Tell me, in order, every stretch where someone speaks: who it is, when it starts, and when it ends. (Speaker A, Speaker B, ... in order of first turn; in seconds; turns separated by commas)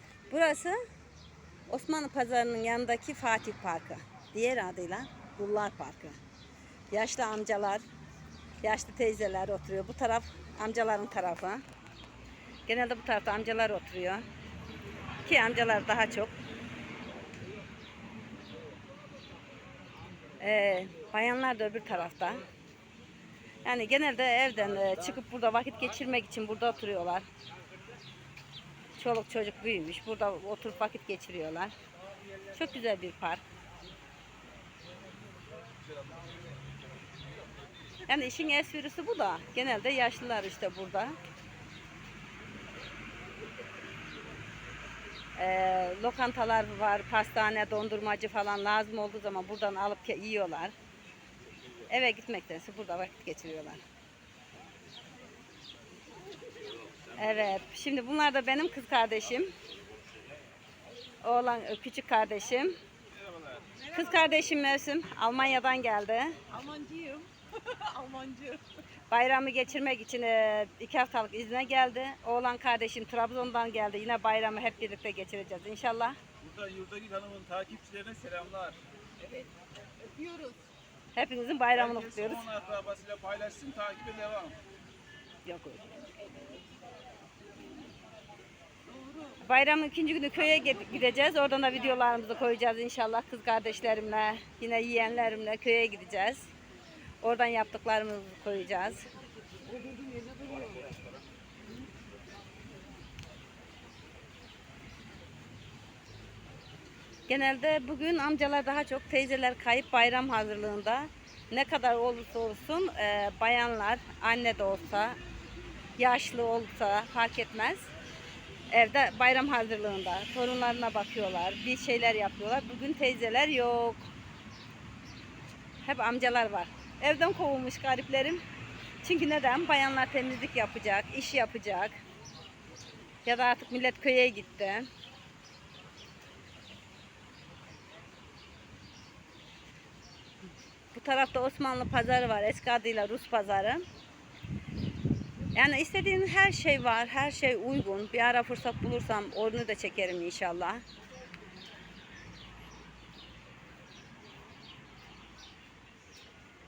Speaker A: 0.3-0.8, Speaker A: 1.7-6.2, Speaker A: 6.9-7.8, Speaker A: 8.6-11.6, Speaker A: 12.7-14.2, Speaker A: 15.2-16.3, Speaker A: 20.4-22.4, Speaker A: 23.6-27.3, Speaker A: 29.0-31.7, Speaker A: 32.5-33.4, Speaker B: 35.9-36.2, Speaker A: 38.1-41.2, Speaker A: 45.4-50.7, Speaker A: 51.9-53.8, Speaker A: 57.1-59.5, Speaker A: 61.2-62.8, Speaker B: 63.1-63.7, Speaker C: 63.8-64.3, Speaker A: 63.9-66.4, Speaker C: 66.5-68.6, Speaker A: 69.1-76.2, Speaker B: 76.4-78.8, Speaker C: 79.2-80.6, Speaker A: 81.2-82.5, Speaker B: 81.7-84.6, Speaker A: 85.5-85.9, Speaker C: 88.9-89.4, Speaker A: 89.4-96.5, Speaker A: 97.2-99.0, Speaker C: 99.6-100.8, Speaker A: 107.3-115.2, Speaker A: 116.0-117.9, Speaker A: 118.7-124.1, Speaker A: 125.8-128.4, Speaker A: 129.0-132.0, Speaker A: 133.2-134.9, Speaker A: 140.9-143.8, Speaker A: 145.5-150.8